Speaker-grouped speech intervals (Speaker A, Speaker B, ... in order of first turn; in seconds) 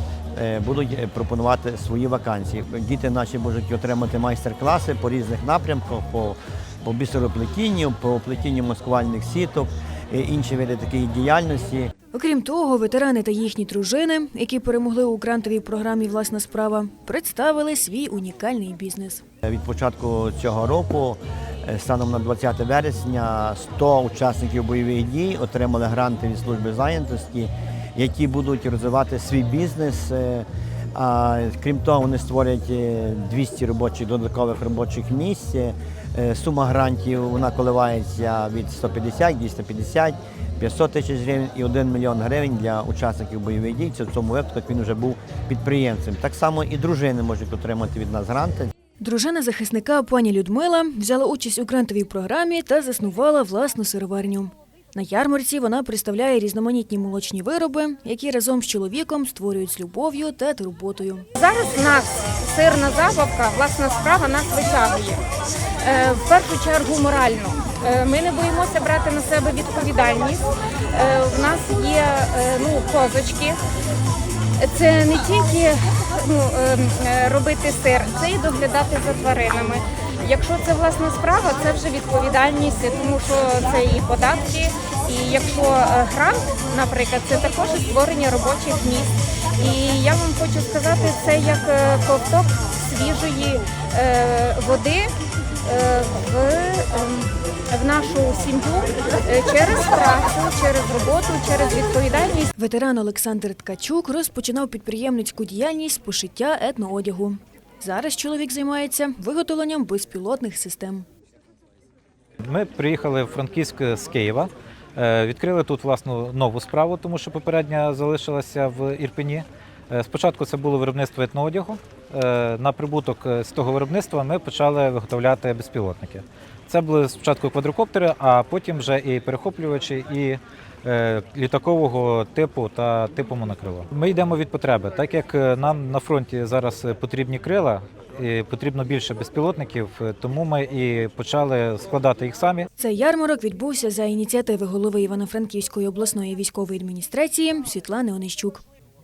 Speaker A: 0.3-11.9, 19.4-48.7
Speaker B: 12.1-19.2, 49.0-61.2, 102.6-111.0, 142.8-148.6
Speaker C: 61.4-65.2, 65.8-73.6, 74.6-95.1, 95.6-102.5
Speaker D: 112.4-142.7